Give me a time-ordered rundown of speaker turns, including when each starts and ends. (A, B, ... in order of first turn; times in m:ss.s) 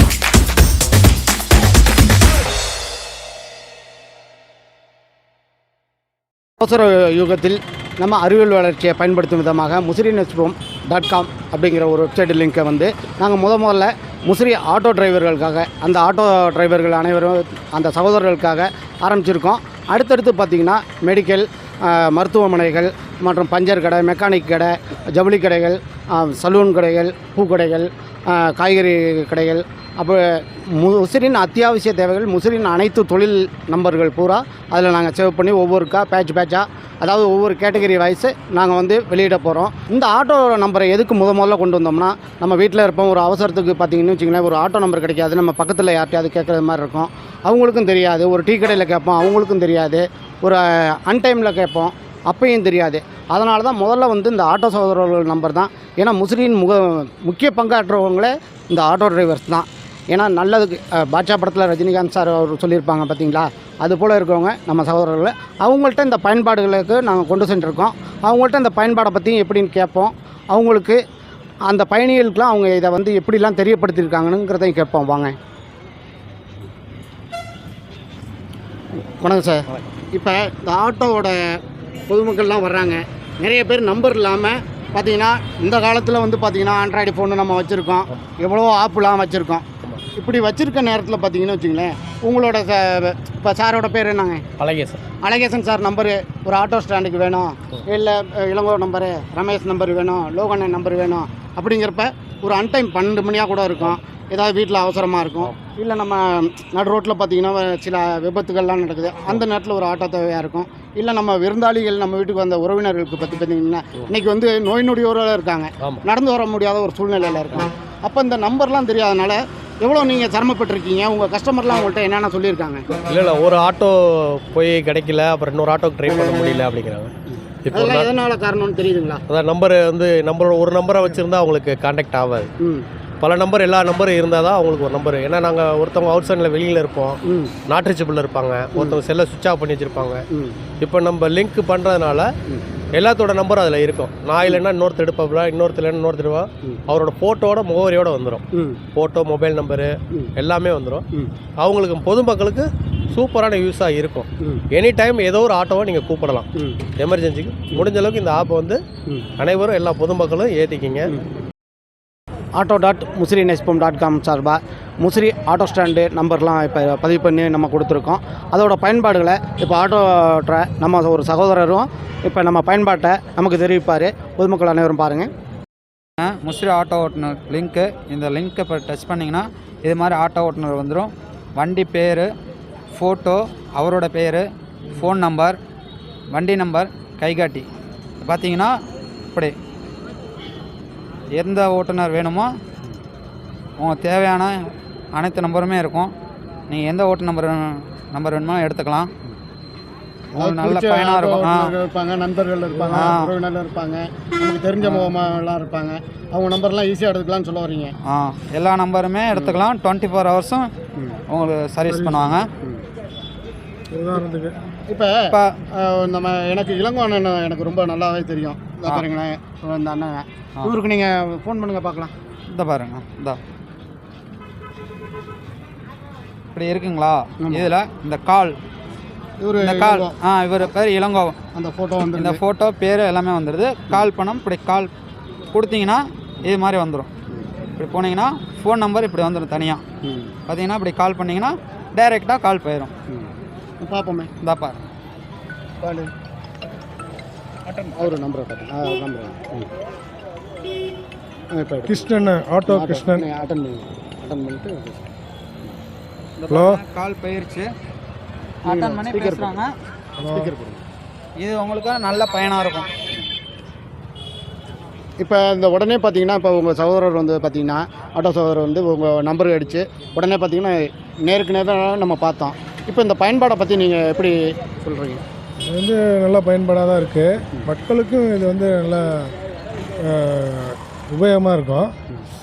0:06.6-1:11.0 A
1:11.7-1:15.3 A
1:18.9-1:34.4 A
1:34.6-1:35.0 B
1:35.2-2:03.0 A
2:03.1-2:07.1 B
2:06.2-2:06.6 A
2:07.4-2:09.2 A
2:07.6-2:08.1 B
2:09.3-2:12.5 B
2:12.6-2:12.9 A
2:13.2-2:20.2 B
2:17.2-2:17.5 A
2:20.3-2:20.6 A
2:20.8-2:22.3 B
2:22.9-2:31.0 B
2:31.6-2:38.8 B
2:39.4-2:41.1 B
2:42.6-2:55.3 A
2:56.2-3:02.3 C
3:02.9-3:05.6 C
3:06.3-3:07.7 C
3:08.2-3:08.8 C
3:11.3-3:12.6 C
3:13.8-3:16.1 C
3:16.7-3:19.1 C
3:20.4-3:21.7 C
3:20.4-3:27.9 A
3:22.9-3:23.3 C
3:28.0-3:30.7 C
3:29.3-3:29.6 A
3:31.3-3:32.5 C
3:31.9-3:32.4 D
3:33.9-3:34.6 D
3:34.9-3:42.1 A
3:35.3-3:35.6 C
3:42.5-3:43.4 C
3:46.6-3:48.6 C
3:47.4-3:47.7 A
3:49.4-3:50.1 A
3:49.6-3:51.4 C
3:51.5-3:52.4 A
3:52.1-3:54.9 C
3:55.5-3:57.1 C
3:57.8-3:59.8 C
4:00.0-4:00.4 A
4:00.5-4:02.9 C
4:03.1-4:04.3 A
4:04.4-4:04.8 C
4:05.8-4:06.1 A
4:07.9-4:09.7 A
4:11.5-4:12.1 A
4:11.9-4:13.2 D
4:12.7-4:15.1 A
4:16.4-4:17.7 C
4:16.5-4:16.8 D
4:18.6-4:19.7 C
4:18.6-4:19.6 A
4:20.2-4:20.8 A
4:20.2-4:20.5 D
4:21.4-4:22.9 C
4:25.2-4:35.2 A
4:35.6-4:39.3 D
4:40.0-4:41.9 D